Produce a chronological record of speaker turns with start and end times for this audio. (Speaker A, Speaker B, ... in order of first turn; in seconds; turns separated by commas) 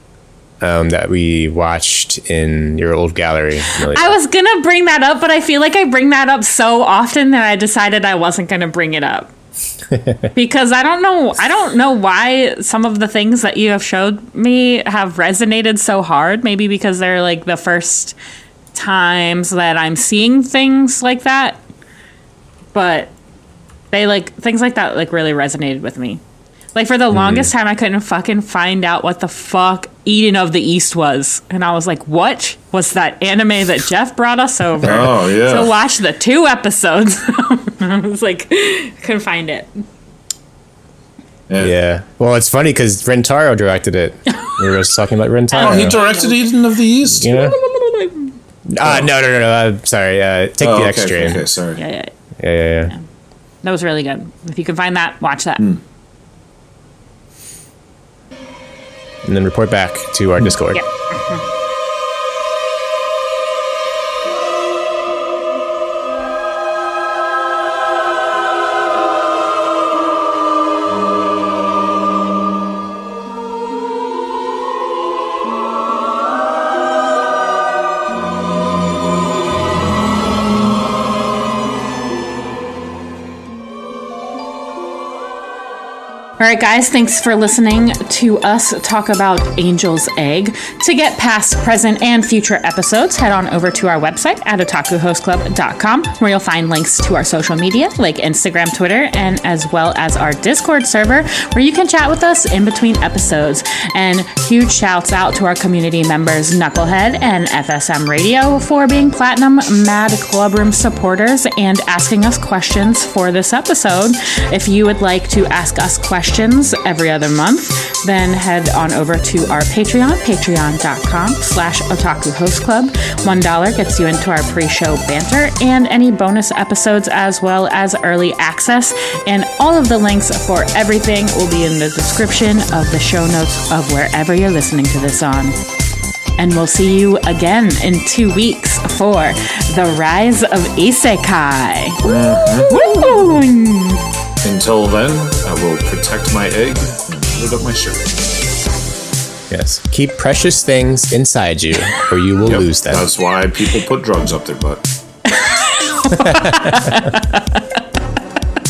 Speaker A: 0.6-4.2, Speaker B: 3.9-9.3, Speaker A: 9.9-10.2, Speaker B: 10.3-18.1, Speaker B: 18.7-21.6, Speaker B: 22.7-23.1, Speaker B: 23.9-26.2, Speaker B: 26.7-39.8, Speaker A: 27.1-27.5, Speaker C: 34.8-35.7, Speaker C: 41.5-41.8, Speaker A: 41.6-46.0, Speaker B: 45.5-46.4, Speaker C: 45.5-47.5, Speaker A: 47.1-47.5, Speaker B: 47.3-48.3, Speaker A: 48.7-51.4, Speaker C: 48.8-49.1, Speaker C: 50.6-51.8, Speaker B: 51.8-52.1, Speaker A: 52.4-52.9, Speaker B: 53.6-55.6, Speaker A: 59.2-60.8, Speaker B: 60.7-61.4, Speaker B: 86.4-135.6, Speaker B: 136.4-142.0, Speaker C: 142.0-142.7, Speaker B: 142.7-144.0, Speaker C: 144.4-148.1, Speaker A: 149.5-153.1, Speaker C: 152.4-154.8, Speaker B: 155.3-157.6, Speaker A: 156.2-156.9